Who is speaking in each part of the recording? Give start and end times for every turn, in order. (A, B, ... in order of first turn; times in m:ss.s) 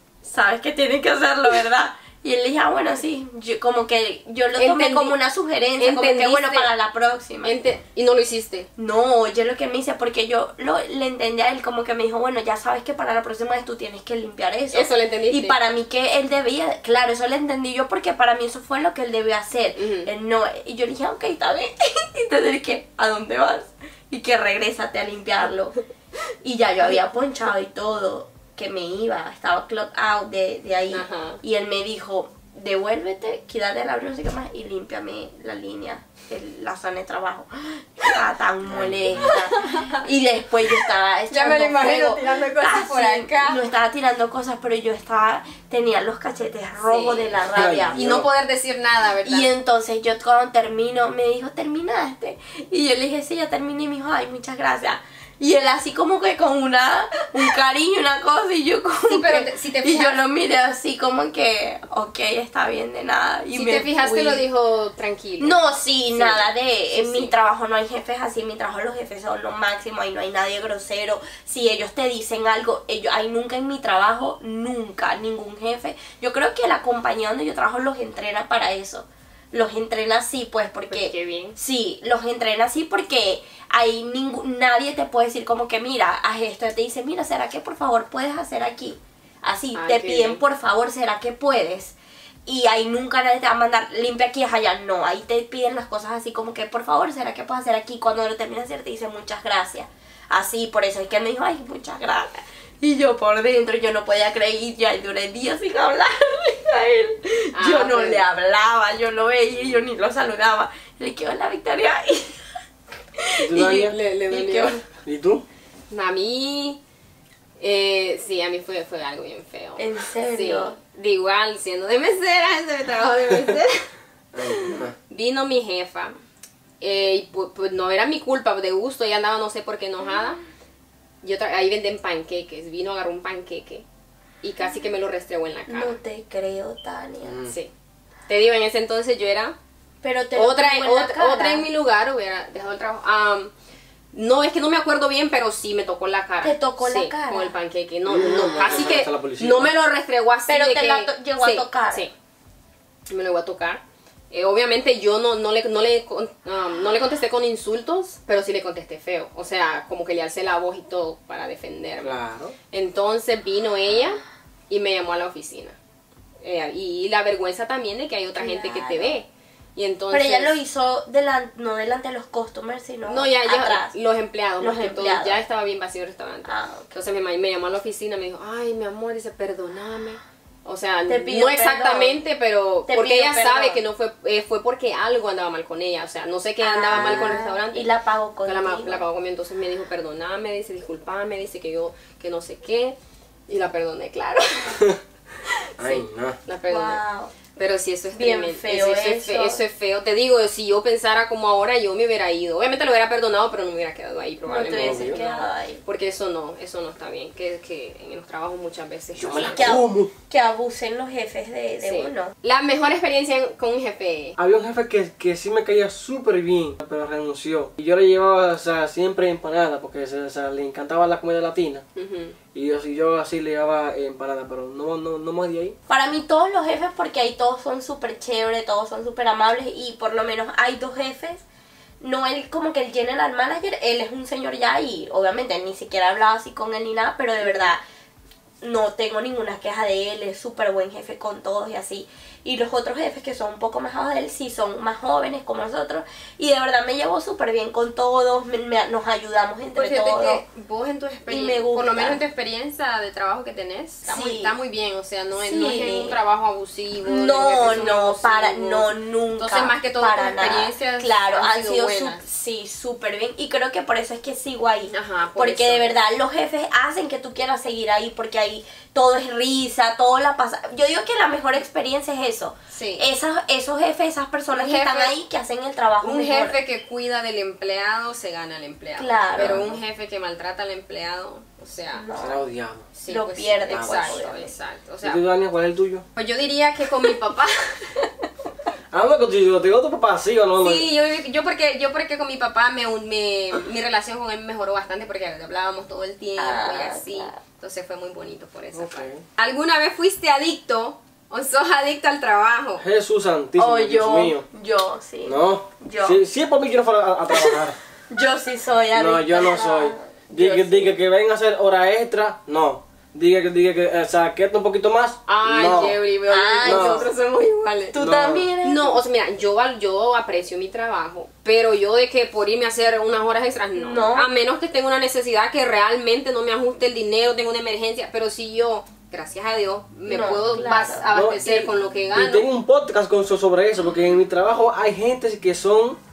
0:00.2-0:07.5 A
0:04.6-0:05.2 B
0:05.8-0:06.7 B
0:07.4-0:08.7 B
0:08.8-0:25.7 A
0:14.7-0:15.6 B
0:19.8-0:20.1 B
0:26.4-0:48.0 A
0:30.9-0:31.4 B
0:38.7-0:39.3 C
0:39.2-0:40.0 B
0:41.3-0:43.6 B
0:46.8-0:47.4 B
0:47.5-0:48.3 C
0:47.9-0:49.5 B
0:49.2-1:04.4 A
0:59.1-1:00.2 B
1:03.5-1:05.6 B
1:05.4-1:52.4 A
1:06.1-1:07.3 B
1:20.9-1:21.6 B
1:29.7-1:30.4 B
1:47.5-1:48.2 B
1:53.2-1:54.8 A
1:53.4-1:54.0 C
1:53.7-1:54.8 B
1:55.0-1:55.4 C
1:55.9-1:56.8 B
1:57.6-2:03.9 B
1:59.8-2:00.8 A
2:04.3-2:04.9 C
2:04.4-2:06.1 B
2:06.8-2:10.4 B
2:11.2-2:13.8 B
2:14.4-2:16.0 B
2:15.7-2:17.4 A
2:17.2-2:17.6 C
2:17.5-2:17.7 B
2:18.3-2:19.6 B
2:20.0-2:21.6 A
2:20.4-2:23.5 B
2:24.1-2:32.1 B
2:26.4-2:27.6 A
2:28.0-2:29.7 C
2:30.5-2:32.1 A
2:33.1-2:42.1 B
2:42.0-2:42.5 C
2:42.7-2:45.8 B
2:46.4-2:50.5 B
2:48.4-2:49.1 A
2:50.1-2:53.9 A
2:53.1-3:07.9 B
2:54.6-2:55.4 A
2:56.4-2:56.9 A
3:01.1-3:02.2 A
3:02.8-3:03.8 A
3:06.6-3:09.0 A
3:06.9-3:07.3 C
3:08.4-3:13.0 B
3:13.5-3:14.8 B
3:15.8-3:17.0 B
3:15.8-3:16.4 C
3:16.7-3:17.3 A
3:17.6-3:29.8 B
3:18.1-3:19.6 A
3:24.4-3:25.8 A
3:24.6-3:25.2 C
3:29.2-3:30.1 C
3:29.6-3:32.3 A
3:31.8-3:34.4 B
3:34.4-3:41.8 C
3:42.0-3:42.4 B
3:42.5-3:45.8 C
3:45.9-3:51.4 A
3:52.0-3:57.8 A
3:57.4-3:57.7 B
3:58.6-4:10.4 A
4:09.7-4:22.2 B
4:11.3-4:12.2 A
4:14.1-4:14.5 A
4:15.4-4:16.2 A
4:17.0-4:36.6 A
4:24.9-4:25.9 B
4:32.7-4:33.0 B
4:34.5-4:35.1 B
4:36.0-4:42.1 B
4:39.0-4:39.7 A
4:39.4-4:39.7 C
4:41.9-4:42.4 A
4:42.2-4:42.9 C
4:42.9-4:45.2 B
4:43.1-4:44.5 A
4:43.7-4:44.2 C
4:45.0-4:46.0 C
4:46.2-4:47.9 B
4:48.9-4:50.9 C
4:50.6-5:02.8 B
4:56.4-4:57.4 A
4:58.7-4:59.2 C
5:02.8-5:04.4 C
5:03.6-5:06.2 A
5:05.2-5:07.8 C
5:07.3-5:07.6 A
5:08.1-5:10.9 A
5:09.0-5:16.0 C
5:15.3-5:18.0 B
5:16.3-5:17.1 A
5:16.6-5:17.1 C
5:17.9-5:19.0 A
5:18.0-5:18.5 C
5:18.6-5:32.4 B
5:23.8-5:24.3 A
5:30.1-5:31.1 A
5:31.1-5:36.0 C